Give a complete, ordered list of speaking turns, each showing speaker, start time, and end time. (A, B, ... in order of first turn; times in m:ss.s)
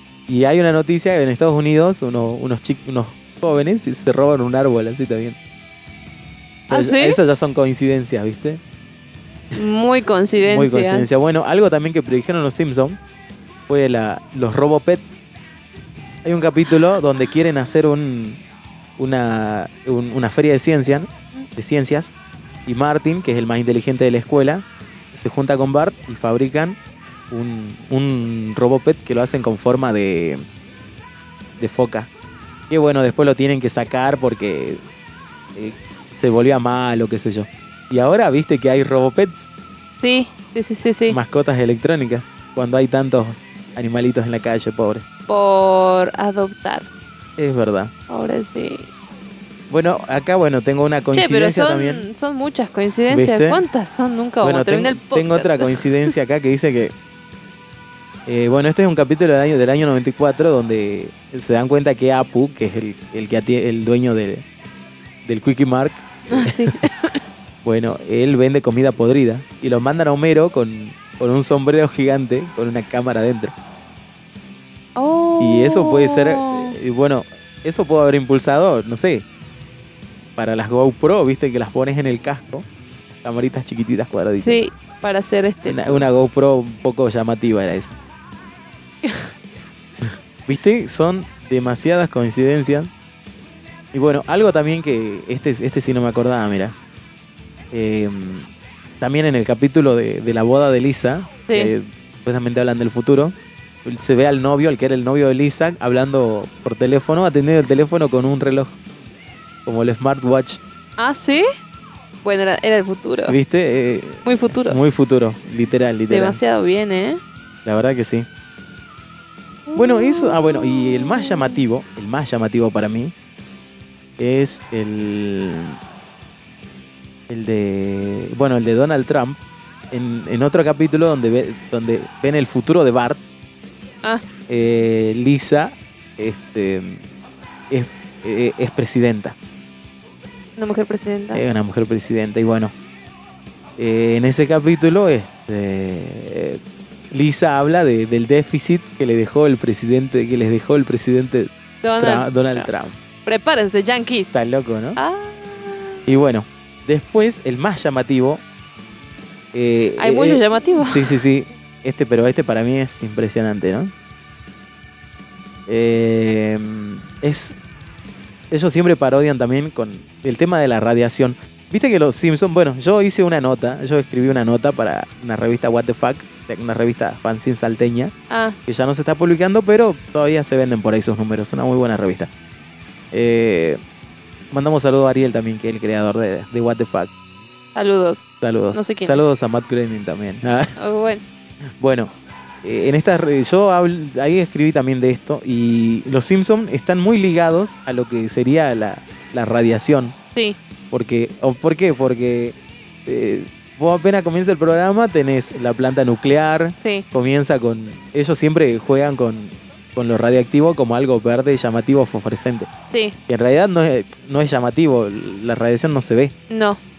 0:00.3-0:05.4 A
0:06.7-0:08.6 A
0:06.7-0:07.2 B
0:09.6-0:11.1 B
0:10.4-0:13.0 A
0:13.7-0:15.2 A
0:16.2-0:18.4 A
0:19.0-0:22.1 A
0:22.7-0:26.8 A
0:27.3-0:30.4 A
0:31.6-0:32.1 A
0:32.7-0:34.8 A
0:35.6-0:39.5 A
0:40.0-0:41.2 B
0:41.1-0:45.0 A
0:45.3-0:46.9 B
0:47.4-0:47.9 A
0:48.1-0:48.9 B
0:49.7-0:52.1 A
0:51.1-0:55.8 B
0:53.1-0:53.6 A
0:54.4-0:56.9 A
0:58.3-1:04.4 A
1:05.2-1:06.7 A
1:06.3-1:07.2 B
1:07.6-1:13.5 A
1:15.0-1:16.8 B
1:15.4-1:19.2 A
1:20.4-1:22.7 A
1:23.2-1:24.6 A
1:24.3-1:26.1 B
1:25.7-1:28.0 A
1:30.1-1:32.9 A
1:33.9-1:36.8 A
1:37.7-1:38.5 A
1:39.0-1:48.8 A
1:41.5-1:41.7 B
1:49.7-1:50.6 A
1:51.0-1:51.4 B
1:52.2-1:53.4 B
1:53.3-1:56.4 A
1:54.2-1:54.8 B
1:56.1-1:57.2 B
1:57.6-1:58.3 A
1:59.7-2:01.6 B
1:59.8-2:03.1 A
2:04.2-2:05.8 A
2:07.3-2:09.4 A
2:09.9-2:13.2 A
2:14.5-2:17.0 A
2:17.7-2:19.4 A
2:20.6-2:21.4 B
2:21.3-2:22.7 A
2:23.8-2:26.6 A
2:27.1-2:33.0 A
2:31.8-2:32.7 B
2:33.3-2:34.3 B
2:34.3-2:35.0 A
2:35.0-2:36.1 B
2:36.1-2:38.4 A
2:39.5-2:43.9 A
2:40.0-2:41.1 B
2:45.7-2:47.6 A
2:48.5-2:58.1 A
2:58.3-2:58.6 B
2:58.7-3:02.3 A
3:03.1-3:03.8 A
3:04.5-3:07.1 A
3:07.8-3:09.2 B
3:08.4-3:10.7 A
3:10.8-3:11.2 B
3:11.8-3:12.1 A
3:12.6-3:20.2 A
3:20.9-3:32.7 A
3:26.8-3:27.0 B
3:33.3-3:36.3 A
3:36.5-3:36.8 B